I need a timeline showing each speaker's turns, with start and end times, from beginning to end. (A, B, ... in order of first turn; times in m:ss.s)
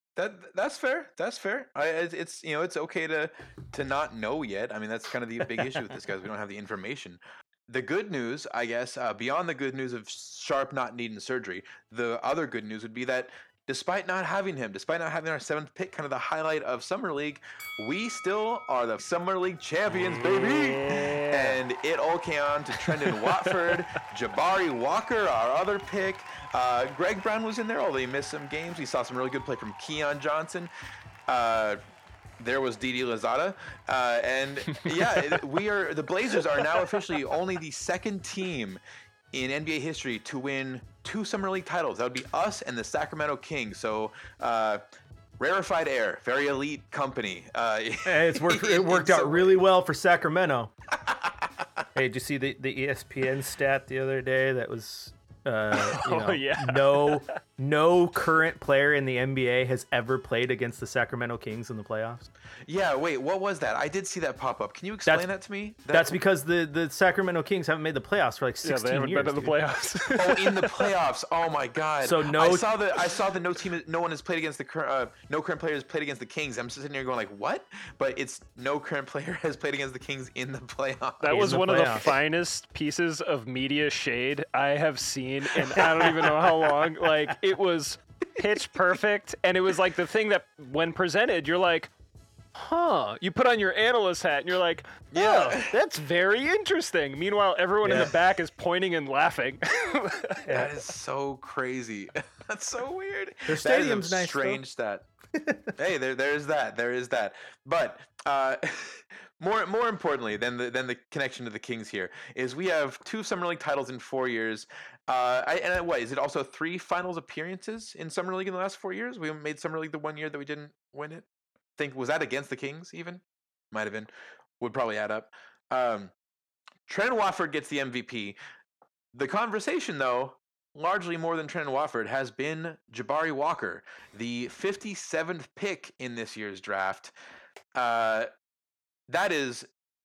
0:00.2-0:30.7 A
0:19.9-0:21.6 B
0:22.8-0:23.8 B
0:31.3-0:31.8 A
0:32.4-0:38.8 A
0:34.9-0:35.4 B
0:39.3-0:44.8 A
0:45.4-0:49.6 A
0:48.1-0:50.7 C
0:52.0-1:02.3 C
0:55.7-0:57.2 B
1:02.7-1:06.2 A
1:05.9-1:09.6 C
1:08.6-1:10.9 B
1:10.2-1:22.1 A
1:12.0-1:12.7 C
1:21.2-1:31.9 B
1:21.3-1:22.0 C
1:25.8-1:26.3 C
1:32.6-1:40.4 B
1:35.1-1:35.8 A
1:37.8-1:38.1 C
1:40.4-1:40.7 C
1:40.5-1:45.0 A
1:43.5-1:44.6 C
1:45.4-1:45.7 C
1:45.8-2:01.2 A
2:01.8-2:04.1 A
2:04.6-2:06.1 A
2:06.9-2:08.4 A
2:09.1-2:17.1 A
2:17.8-2:18.3 A
2:19.1-2:19.7 A